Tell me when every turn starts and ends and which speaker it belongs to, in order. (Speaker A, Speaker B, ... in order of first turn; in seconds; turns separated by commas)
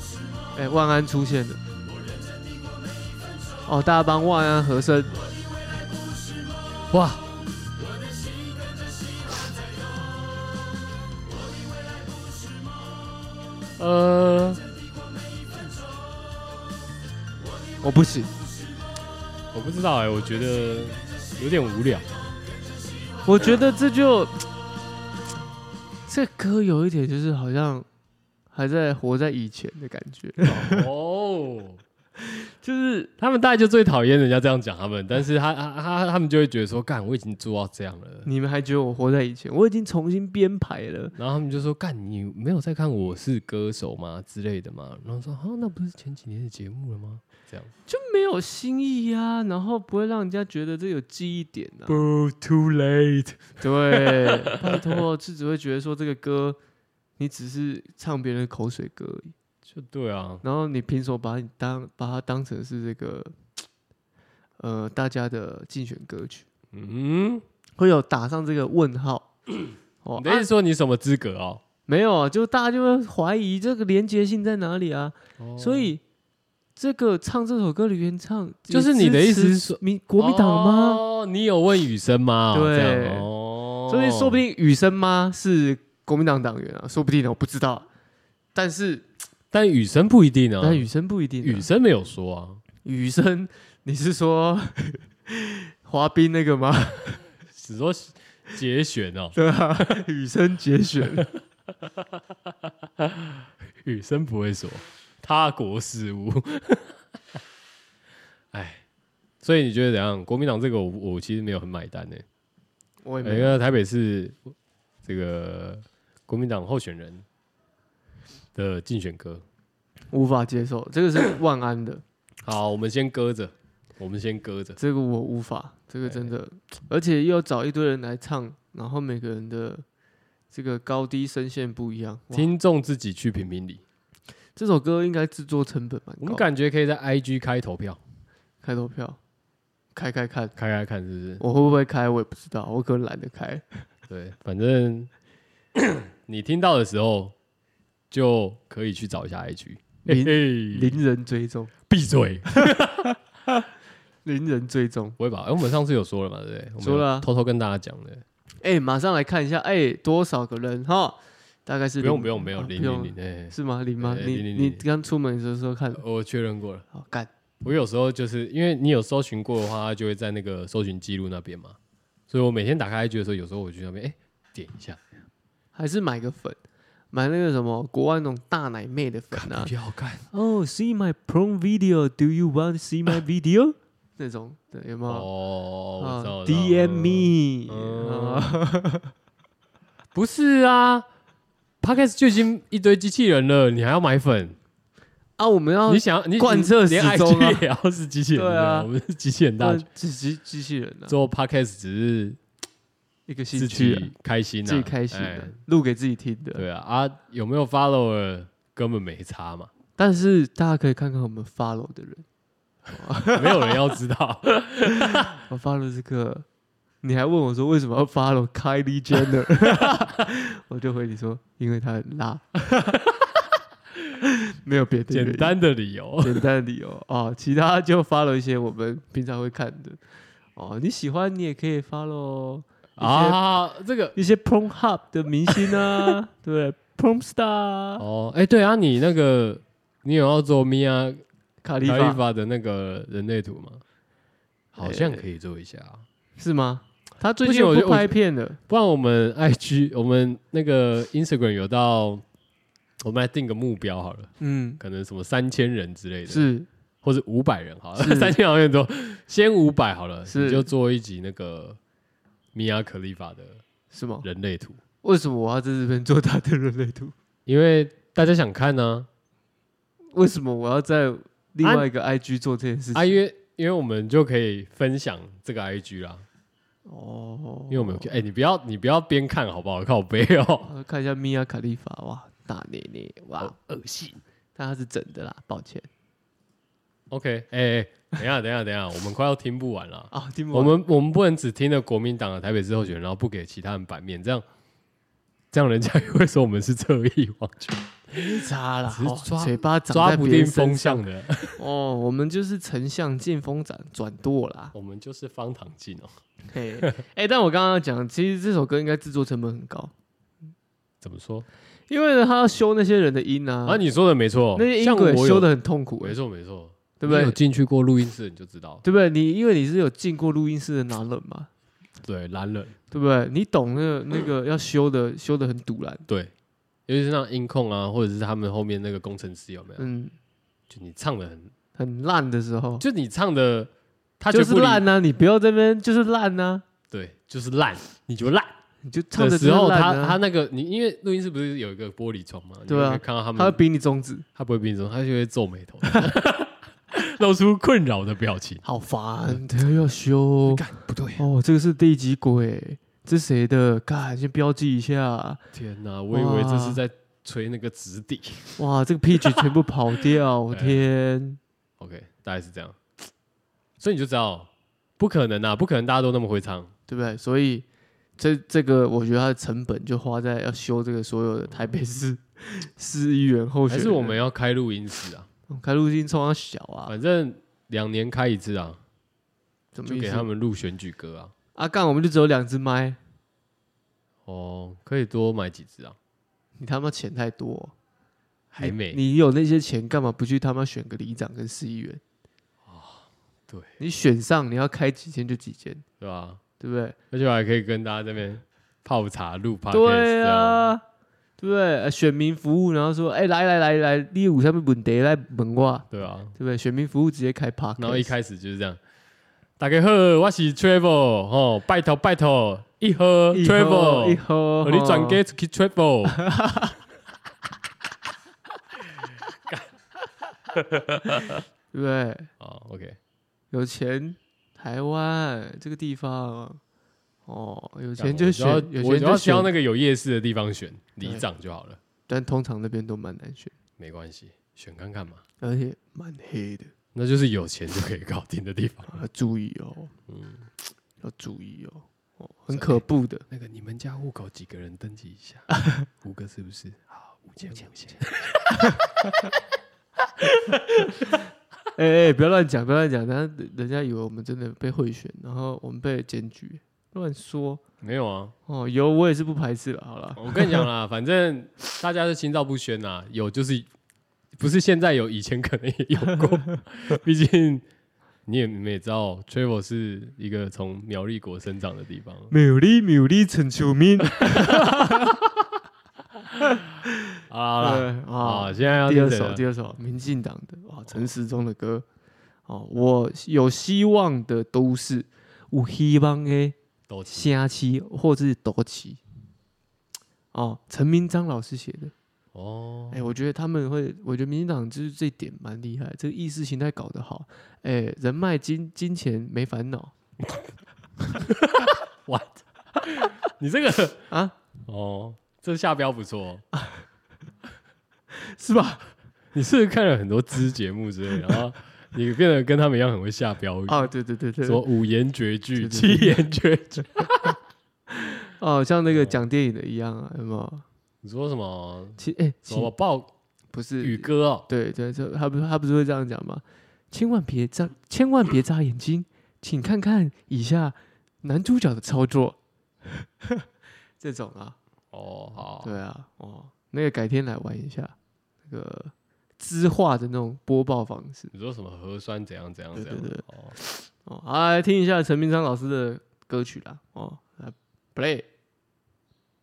Speaker A: 0.6-1.6, Speaker A: 3.6-5.1, Speaker B: 6.9-7.2, Speaker B: 13.8-14.6, Speaker A: 17.8-18.3, Speaker B: 19.5-22.2, Speaker A: 23.2-24.4, Speaker A: 26.1-27.9, Speaker A: 28.5-30.9, Speaker B: 30.4-31.8, Speaker A: 32.3-33.1, Speaker B: 33.2-38.3, Speaker A: 38.2-41.1, Speaker B: 41.1-47.7, Speaker A: 47.9-52.0, Speaker B: 51.9-55.0, Speaker A: 53.6-56.6, Speaker A: 57.2-59.3, Speaker B: 59.6-60.4, Speaker A: 60.4-63.3, Speaker A: 64.6-66.5, Speaker B: 66.7-67.4, Speaker A: 67.8-69.3, Speaker A: 70.0-70.5, Speaker B: 70.2-71.6, Speaker A: 71.9-76.0, Speaker B: 75.4-76.0, Speaker A: 76.8-81.0, Speaker B: 78.7-84.4, Speaker A: 82.5-83.3, Speaker A: 83.9-87.9, Speaker A: 88.5-89.0, Speaker B: 89.5-90.9, Speaker A: 90.6-91.7, Speaker B: 91.4-92.6, Speaker A: 92.8-97.2, Speaker B: 97.5-100.0, Speaker A: 99.3-101.3, Speaker B: 101.8-107.0, Speaker B: 108.5-108.8, Speaker B: 109.4-112.2, Speaker A: 113.0-113.6, Speaker B: 113.2-117.2, Speaker B: 118.5-119.4, Speaker A: 120.1-122.0, Speaker B: 122.4-124.8, Speaker A: 124.8-129.8, Speaker B: 126.0-126.3, Speaker A: 130.5-132.5, Speaker B: 132.3-133.8, Speaker A: 134.6-136.4, Speaker B: 136.2-138.0, Speaker A: 138.6-139.2, Speaker A: 139.9-140.6, Speaker B: 140.6-141.4, Speaker A: 141.4-143.6, Speaker B: 144.1-145.1, Speaker B: 145.7-147.3, Speaker B: 148.1-151.0, Speaker A: 150.1-151.7, Speaker B: 151.9-153.1, Speaker A: 154.2-155.2, Speaker B: 155.2-158.2, Speaker A: 156.8-157.3, Speaker A: 158.6-166.0, Speaker B: 162.0-164.8, Speaker B: 165.9-166.9, Speaker A: 166.9-167.3, Speaker B: 167.6-171.8, Speaker B: 172.3-175.0, Speaker A: 175.7-176.6, Speaker A: 177.1-179.7, Speaker B: 179.3-180.2, Speaker A: 180.3-185.3, Speaker B: 185.1-188.5, Speaker A: 186.0-189.1, Speaker B: 190.1-191.1, Speaker B: 191.8-194.6, Speaker A: 195.4-197.6, Speaker B: 195.9-199.9, Speaker A: 198.3-198.9, Speaker A: 199.6-201.1, Speaker B: 201.1-202.4, Speaker A: 203.3-204.1, Speaker B: 203.6-205.6, Speaker A: 204.6-206.6, Speaker B: 206.6-209.7, Speaker A: 210.0-212.2, Speaker A: 212.9-213.8, Speaker B: 213.3-215.4, Speaker A: 215.1-216.4, Speaker A: 217.0-222.9, Speaker B: 219.6-220.0, Speaker A: 224.2-225.6, Speaker B: 225.1-226.5, Speaker A: 226.2-230.0, Speaker A: 230.6-233.4, Speaker B: 233.0-234.2, Speaker A: 234.1-238.1, Speaker B: 235.5-236.1, Speaker B: 238.0-241.2, Speaker A: 241.6-242.2, Speaker B: 241.8-243.8, Speaker B: 244.7-246.0, Speaker A: 244.8-245.2, Speaker A: 246.4-248.6, Speaker B: 247.4-248.2, Speaker B: 248.7-252.2, Speaker B: 253.0-256.5, Speaker A: 254.4-254.8, Speaker A: 256.3-256.7, Speaker B: 257.0-261.8, Speaker A: 258.0-258.3, Speaker A: 260.3-260.7, Speaker B: 262.5-263.6, Speaker A: 263.9-264.2, Speaker B: 264.2-264.8, Speaker A: 265.0-267.1, Speaker B: 267.4-269.1, Speaker A: 270.1-273.2, Speaker B: 272.9-276.3, Speaker A: 276.9-278.1, Speaker B: 277.7-280.7, Speaker A: 280.6-283.5, Speaker B: 283.4-284.2, Speaker A: 284.6-285.9, Speaker B: 287.1-294.4, Speaker A: 290.1-290.8, Speaker B: 295.5-298.3, Speaker A: 298.1-301.1, Speaker B: 298.9-301.6, Speaker A: 301.6-304.7, Speaker B: 304.7-306.1, Speaker A: 306.5-309.9, Speaker B: 311.0-311.4, Speaker A: 311.9-313.8, Speaker B: 313.6-318.8, Speaker A: 314.6-316.2, Speaker A: 317.0-317.4, Speaker A: 318.8-321.5, Speaker B: 322.0-322.8, Speaker A: 322.9-326.1, Speaker B: 326.9-329.9, Speaker A: 329.8-330.1, Speaker B: 330.7-331.5, Speaker A: 331.8-332.8, Speaker B: 332.8-334.8, Speaker A: 334.3-336.6, Speaker B: 336.9-338.6, Speaker A: 338.8-340.2, Speaker B: 339.1-343.6, Speaker A: 342.7-344.2, Speaker B: 344.4-348.6, Speaker A: 348.6-350.6, Speaker B: 350.4-351.2, Speaker A: 351.2-355.4, Speaker B: 355.5-358.6, Speaker A: 356.1-356.8, Speaker A: 358.6-361.4, Speaker B: 360.5-360.8, Speaker B: 361.8-362.8, Speaker B: 363.8-366.7, Speaker A: 366.9-367.6, Speaker A: 368.2-374.2, Speaker B: 373.7-375.3, Speaker A: 375.5-376.9, Speaker B: 376.9-378.8, Speaker A: 379.7-380.3, Speaker B: 379.9-381.3, Speaker A: 381.6-383.0, Speaker B: 384.3-386.0, Speaker A: 386.6-387.7, Speaker B: 388.5-389.0, Speaker A: 388.6-392.0, Speaker B: 392.6-393.7, Speaker A: 393.8-395.8, Speaker B: 396.0-396.4, Speaker A: 396.6-397.0, Speaker B: 397.1-400.7, Speaker A: 399.7-400.8, Speaker A: 401.4-408.1, Speaker B: 405.9-406.3, Speaker B: 407.8-408.8, Speaker B: 409.6-416.2, Speaker A: 413.3-415.2, Speaker A: 416.1-416.7, Speaker B: 419.3-419.7, Speaker B: 420.5-421.4, Speaker A: 421.7-422.3, Speaker B: 422.4-423.0, Speaker A: 423.5-426.6, Speaker A: 427.3-429.5, Speaker B: 428.0-431.8, Speaker A: 432.1-433.5, Speaker B: 433.8-435.2, Speaker A: 435.4-436.7, Speaker B: 436.9-439.0, Speaker A: 438.9-439.9, Speaker B: 440.1-440.5, Speaker A: 441.0-443.2, Speaker B: 442.5-448.9, Speaker B: 450.2-451.2, Speaker A: 451.7-457.6, Speaker B: 457.8-458.3, Speaker A: 458.5-460.6, Speaker B: 460.1-463.7, Speaker B: 464.4-467.6, Speaker B: 468.3-472.3, Speaker A: 472.3-475.1, Speaker B: 474.2-475.1, Speaker B: 477.3-479.4, Speaker A: 477.6-481.8, Speaker A: 482.5-486.6, Speaker B: 486.9-487.3, Speaker A: 487.1-489.0, Speaker A: 490.3-491.9, Speaker B: 492.3-493.0, Speaker A: 492.9-499.9, Speaker B: 501.0-504.1, Speaker B: 504.6-506.4, Speaker A: 508.1-508.9, Speaker B: 509.3-513.9, Speaker A: 513.7-514.6, Speaker B: 514.4-517.4, Speaker A: 515.6-516.2, Speaker A: 517.9-520.6, Speaker B: 518.9-519.2, Speaker B: 521.0-523.1, Speaker A: 522.0-522.7, Speaker A: 523.5-533.5, Speaker B: 523.8-524.5, Speaker A: 534.0-534.5, Speaker B: 534.9-535.8, Speaker A: 535.6-538.0, Speaker A: 538.5-541.3, Speaker B: 541.3-543.5, Speaker A: 542.7-548.3